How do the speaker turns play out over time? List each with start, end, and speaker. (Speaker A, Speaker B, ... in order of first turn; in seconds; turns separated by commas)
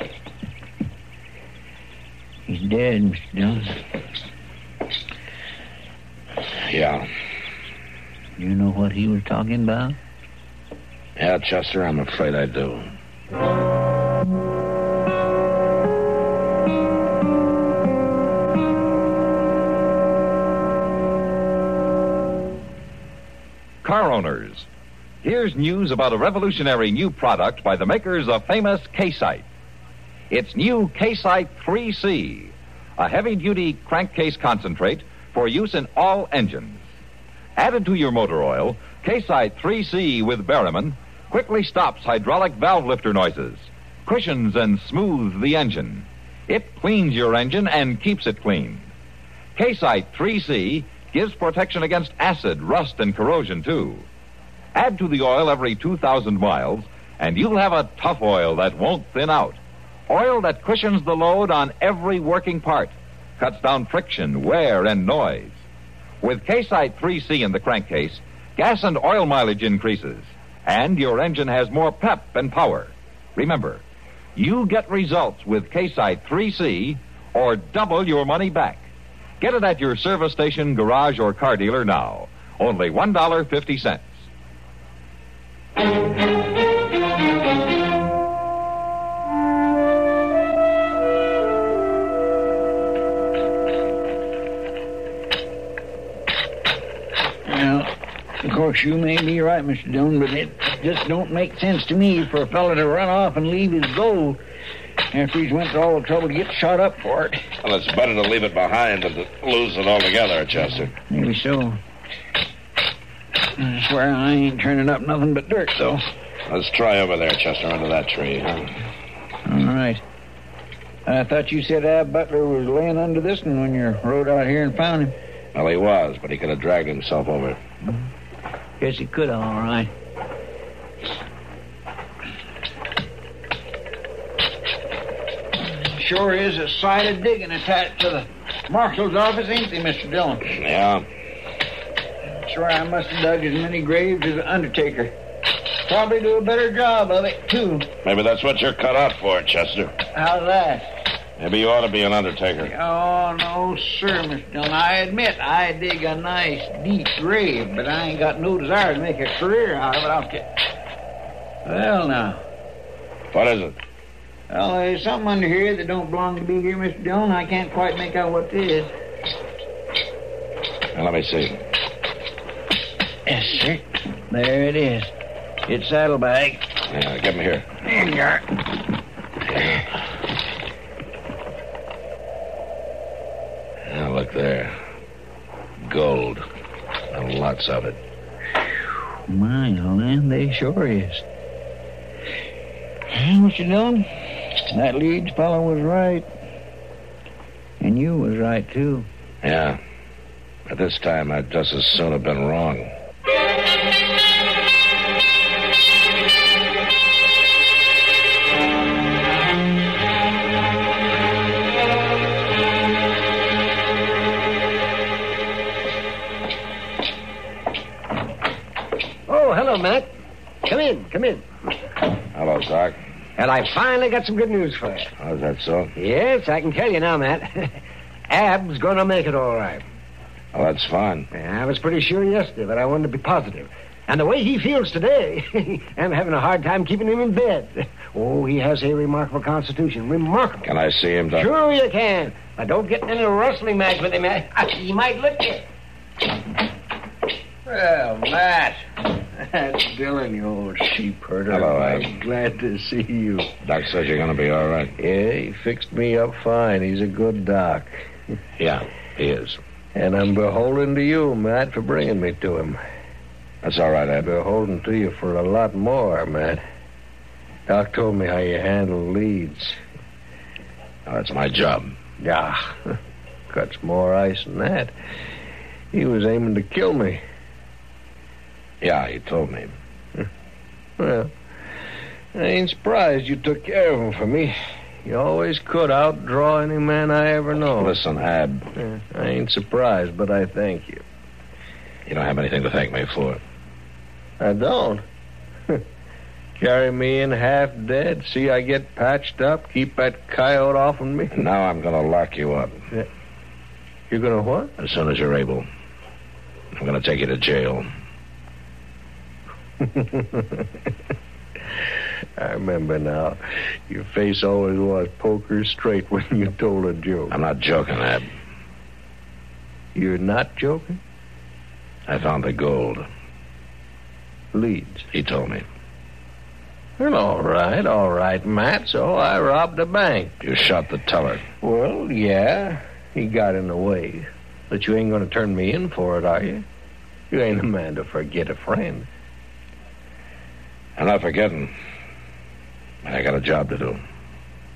Speaker A: 2.5-3.8, Speaker B: 6.6-7.1, Speaker A: 8.4-10.0, Speaker B: 11.2-12.9, Speaker C: 23.8-24.7, Speaker C: 25.2-29.4, Speaker C: 30.3-36.8, Speaker C: 37.6-48.9, Speaker C: 49.6-54.1, Speaker C: 54.8-65.6, Speaker C: 66.2-73.8, Speaker C: 74.4-78.9, Speaker C: 79.4-84.2, Speaker A: 97.5-104.4, Speaker A: 105.1-107.4, Speaker B: 107.6-110.9, Speaker A: 111.1-111.8, Speaker A: 113.6-116.0, Speaker B: 116.5-118.7, Speaker A: 119.5-120.0, Speaker A: 121.1-125.2, Speaker B: 125.5-127.6, Speaker A: 128.8-129.9, Speaker A: 135.8-140.5, Speaker B: 140.5-141.1, Speaker A: 142.4-145.2, Speaker A: 145.9-147.9, Speaker B: 148.0-149.9, Speaker A: 150.1-150.9, Speaker B: 151.4-152.7, Speaker A: 152.6-160.5, Speaker A: 161.7-162.4, Speaker B: 163.3-163.8, Speaker A: 164.5-168.9, Speaker B: 170.9-171.6, Speaker A: 173.3-175.1, Speaker A: 175.7-176.6, Speaker B: 176.9-177.7, Speaker A: 177.9-178.4, Speaker B: 179.5-179.9, Speaker B: 183.9-184.8, Speaker B: 185.8-186.5, Speaker B: 187.1-188.0, Speaker A: 189.3-191.2, Speaker A: 193.1-196.3, Speaker A: 197.8-199.1, Speaker B: 199.4-199.8, Speaker B: 200.7-202.9, Speaker D: 219.3-220.1, Speaker D: 220.6-221.5, Speaker B: 222.3-223.0, Speaker D: 223.4-225.1, Speaker B: 225.2-225.9, Speaker D: 226.0-229.8, Speaker B: 230.5-231.3, Speaker D: 231.3-240.7, Speaker B: 240.7-241.5, Speaker D: 241.3-245.7, Speaker E: 247.7-253.5, Speaker B: 251.5-252.1, Speaker B: 253.6-255.0, Speaker E: 255.0-258.1, Speaker B: 258.6-259.6, Speaker E: 259.9-262.8, Speaker B: 263.6-264.3, Speaker E: 264.2-266.6, Speaker E: 267.7-269.8, Speaker B: 271.1-272.0, Speaker E: 272.2-273.0, Speaker E: 273.5-274.9, Speaker E: 275.9-277.2, Speaker B: 278.8-279.8, Speaker E: 281.0-281.4, Speaker E: 282.3-288.0, Speaker B: 287.8-288.7, Speaker E: 288.8-291.0, Speaker B: 292.1-293.4, Speaker E: 294.4-295.0, Speaker E: 296.6-301.5, Speaker B: 301.3-302.9, Speaker E: 304.1-304.7, Speaker B: 304.8-305.7, Speaker B: 306.8-307.9, Speaker E: 309.8-310.7, Speaker E: 312.4-317.4, Speaker B: 317.3-318.3, Speaker E: 319.9-321.0, Speaker B: 322.1-323.1, Speaker E: 324.5-325.1, Speaker B: 325.1-325.6, Speaker E: 327.0-330.4, Speaker B: 330.4-331.4, Speaker E: 331.6-336.6, Speaker E: 337.3-339.1, Speaker B: 341.0-341.7, Speaker B: 343.0-344.0